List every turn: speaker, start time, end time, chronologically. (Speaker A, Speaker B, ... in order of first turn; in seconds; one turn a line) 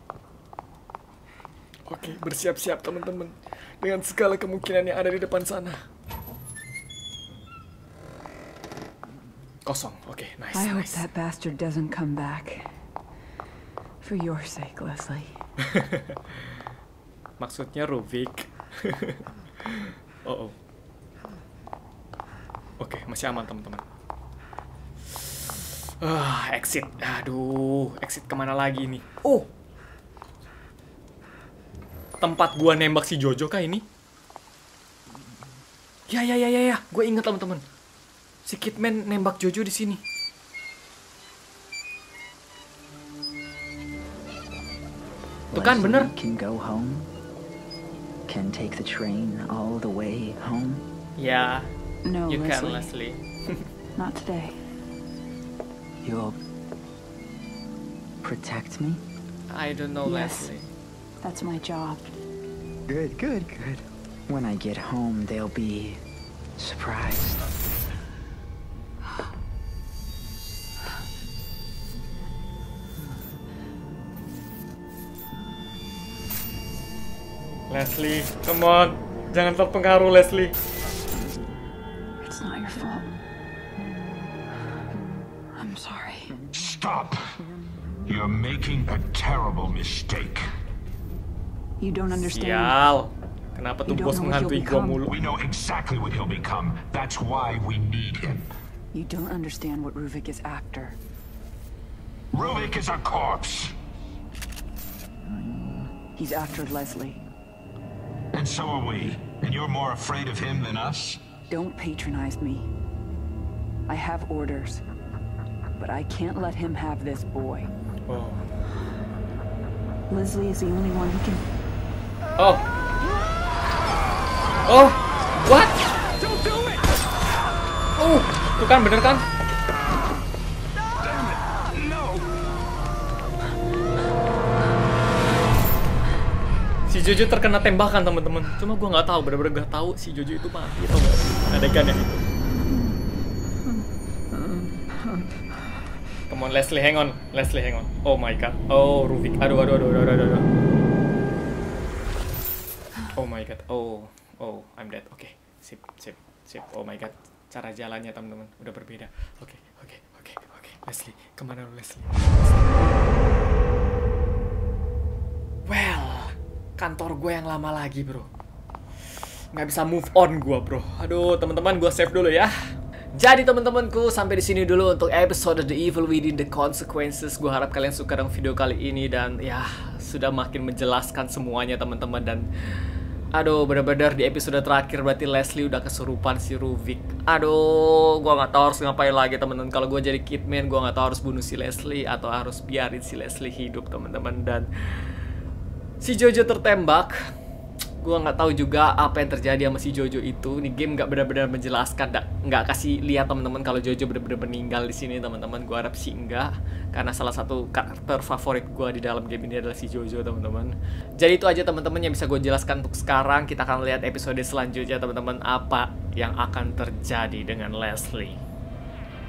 Speaker A: 1.9-5.8
Speaker A: 9.7-11.1
Speaker B: 10.5-12.7
Speaker B: 14.0-15.3
Speaker A: 15.7-16.1
Speaker A: 17.4-20.5
Speaker A: 22.8-23.8
Speaker A: 26.0-29.5
Speaker A: 32.2-33.8
Speaker A: 36.1-37.6
Speaker A: 38.4-40.0
Speaker C: 45.5-47.1
Speaker A: 45.5-46.1
Speaker C: 48.3-50.8
Speaker A: 51.2-51.7
Speaker B: 52.0-52.9
Speaker A: 52.3-53.2
Speaker B: 54.0-54.6
Speaker C: 56.0-56.4
Speaker C: 58.2-59.0
Speaker A: 59.5-60.7
Speaker B: 60.0-60.5
Speaker B: 61.2-62.0
Speaker C: 62.9-66.0
Speaker C: 66.6-67.5
Speaker A: 77.7-80.5
Speaker B: 82.2-83.1
Speaker B: 85.5-86.3
Speaker D: 86.5-87.2
Speaker D: 88.0-90.4
Speaker B: 91.8-92.8
Speaker A: 92.1-95.1
Speaker B: 93.8-95.0
Speaker D: 95.1-98.5
Speaker B: 98.9-101.0
Speaker D: 102.3-103.7
Speaker B: 106.1-107.2
Speaker D: 108.3-111.2
Speaker B: 111.5-112.7
Speaker B: 113.9-114.8
Speaker B: 115.8-117.7
Speaker A: 118.1-118.4
Speaker B: 120.1-121.4
Speaker A: 122.4-122.7
Speaker A: 124.7-125.8
Speaker D: 126.2-126.7
Speaker A: 128.0-129.2
Speaker D: 131.0-132.2
Speaker A: 136.9-142.2
Speaker A: 146.3-150.4
Speaker A: 153.1-162.9
Speaker A: 165.7-168.3
Speaker A: 169.5-172.5
Speaker A: 173.1-182.5
Speaker A: 183.3-194.7
Speaker A: 196.0-197.3
Speaker A: 198.0-218.4